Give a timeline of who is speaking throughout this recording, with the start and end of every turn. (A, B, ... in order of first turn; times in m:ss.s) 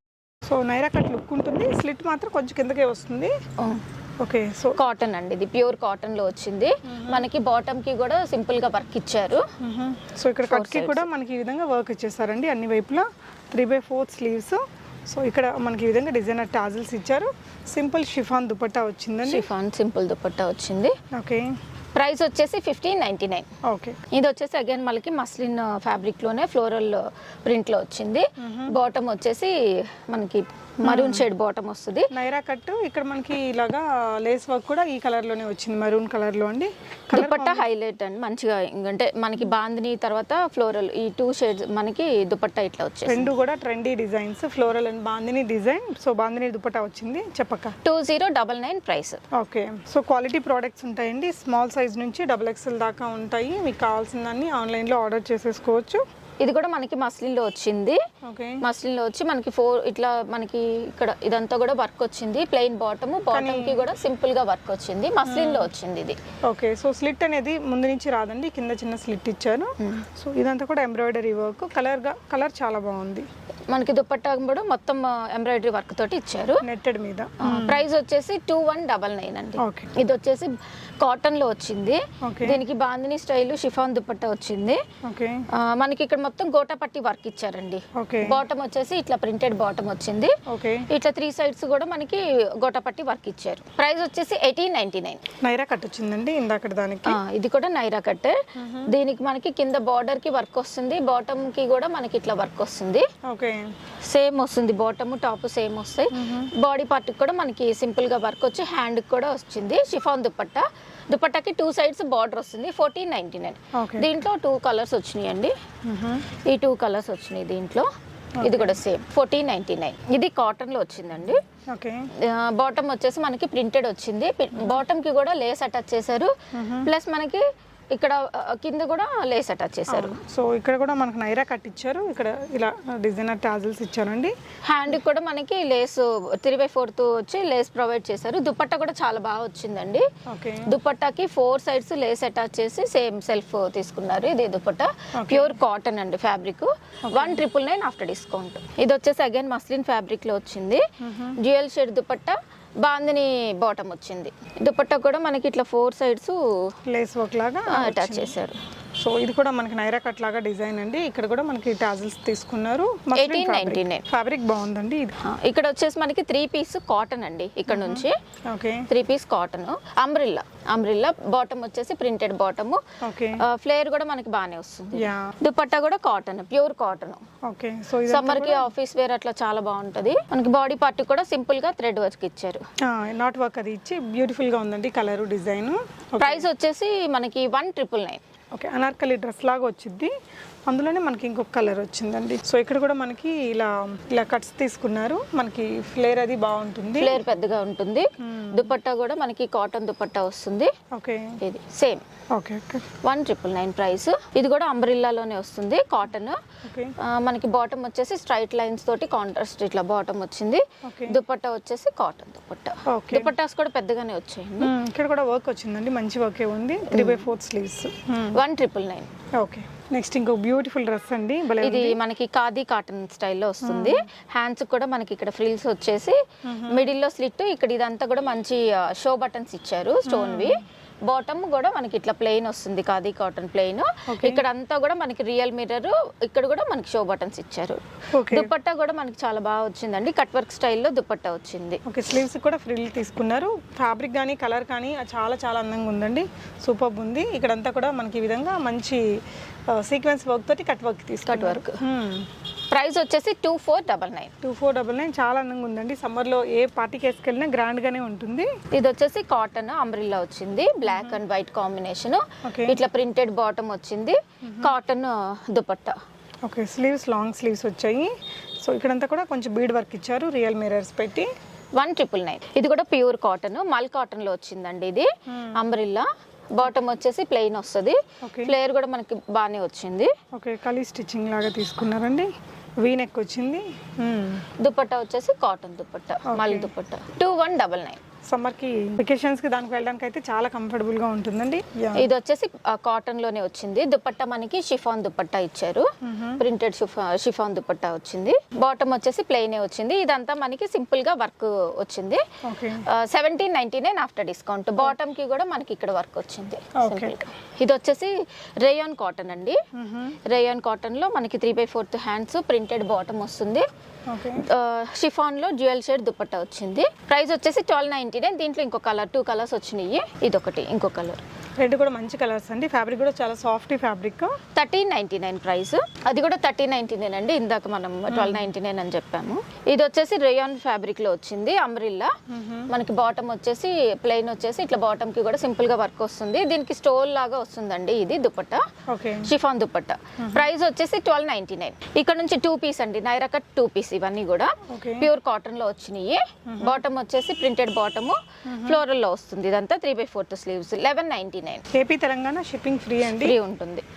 0:00.5-0:03.3 A
0:04.2-0:04.8 A
0:04.8-0:09.4 B
0:06.9-0:07.2 A
0:09.6-0:19.5 A
0:10.5-0:11.1 B
0:19.2-0:21.0 B
0:21.1-0:21.5 A
0:21.9-0:23.5 B
0:23.6-0:24.0 A
0:24.1-0:32.1 B
0:28.4-0:28.7 A
0:30.8-0:31.2 A
0:32.1-0:37.6 A
0:37.1-0:43.3 B
0:43.0-0:47.8 A
0:47.8-0:49.2 B
0:49.3-0:56.0 A
0:56.4-0:58.0 B
0:58.2-0:58.6 A
0:58.6-1:06.2 B
1:03.3-1:03.8 A
1:05.2-1:05.7 A
1:06.4-1:13.3 A
1:13.7-1:16.6 B
1:16.6-1:17.8 A
1:17.4-1:24.8 B
1:19.6-1:19.9 A
1:22.2-1:22.6 A
1:25.0-1:25.4 A
1:25.5-1:30.4 B
1:28.0-1:28.4 A
1:30.5-1:30.9 A
1:30.9-1:35.2 B
1:35.4-1:37.2 A
1:37.0-1:43.1 B
1:38.6-1:38.9 A
1:43.2-1:43.7 A
1:44.0-1:55.5 B
1:46.1-1:46.5 A
1:53.7-1:54.1 A
1:55.8-1:56.2 A
1:56.4-1:57.9 B
1:58.4-1:58.8 A
1:58.4-2:01.4 B
2:01.7-2:02.0 A
2:02.2-2:06.3 B
2:06.5-2:06.9 A
2:06.8-2:10.2 B
2:09.9-2:14.4 A
2:14.6-2:20.0 B
2:20.2-2:20.7 A
2:20.6-2:30.8 B
2:25.1-2:25.6 A
2:27.1-2:27.4 A
2:31.0-2:31.4 A
2:31.4-2:36.7 B
2:36.9-2:38.4 A
2:37.7-2:38.6 B
2:39.0-2:45.2 A
2:43.1-2:44.0 B
2:45.2-2:48.2 B
2:47.7-2:48.9 A
2:48.9-2:52.8 B
2:53.0-2:53.4 A
2:53.4-2:57.2 B
2:54.9-2:55.4 A
2:57.4-2:58.7 A
2:58.1-3:02.6 B
3:02.8-3:06.4 A
3:06.2-3:08.2 B
3:08.5-3:10.1 A
3:10.7-3:17.2 A
3:17.0-3:20.7 B
3:18.2-3:18.7 A
3:20.9-3:21.4 A
3:21.4-3:22.0 B
3:22.3-3:22.8 A
3:23.0-3:26.4 B
3:26.6-3:26.9 A
3:27.0-3:34.7 B
3:30.8-3:31.2 A
3:32.9-3:33.3 A
3:34.6-3:38.4 A
3:36.9-3:37.3 B
3:38.3-3:39.1 B
3:39.4-3:42.0 A
3:41.6-4:01.8 B
3:43.6-3:44.0 A
3:46.4-3:46.9 A
3:50.0-3:50.6 A
3:54.1-3:54.4 A
3:58.1-3:58.5 A
4:01.8-4:09.0 A
4:09.7-4:12.3 A
4:11.3-4:11.8 B
4:12.7-4:14.3 B
4:14.4-4:18.5 A
4:18.7-4:26.0 B
4:20.8-4:21.2 A
4:22.4-4:22.8 A
4:24.4-4:24.7 A
4:26.4-4:31.3 A
4:31.8-4:40.1 B
4:35.3-4:35.6 A
4:38.2-4:38.5 A
4:40.3-4:44.4 A
4:44.6-4:48.0 B
4:46.2-4:46.7 A
4:48.2-4:52.1 A
4:51.9-4:55.9 B
4:56.0-4:56.4 A
4:56.4-5:02.2 B
5:02.4-5:02.8 A
5:02.8-5:09.6 B
5:06.8-5:07.1 A
5:09.7-5:10.2 A
5:10.2-5:13.6 B
5:14.1-5:14.4 A
5:14.4-5:21.2 B
5:21.6-5:24.4 A
5:24.6-5:32.1 B
5:28.1-5:28.5 A
5:32.3-5:32.7 A
5:32.7-5:38.6 B
5:38.9-5:39.3 A
5:39.2-5:51.6 B
5:40.2-5:40.5 A
5:44.7-5:45.1 A
5:46.5-5:46.8 A
5:48.4-5:48.8 A
5:51.7-5:53.4 A
5:53.0-5:53.8 B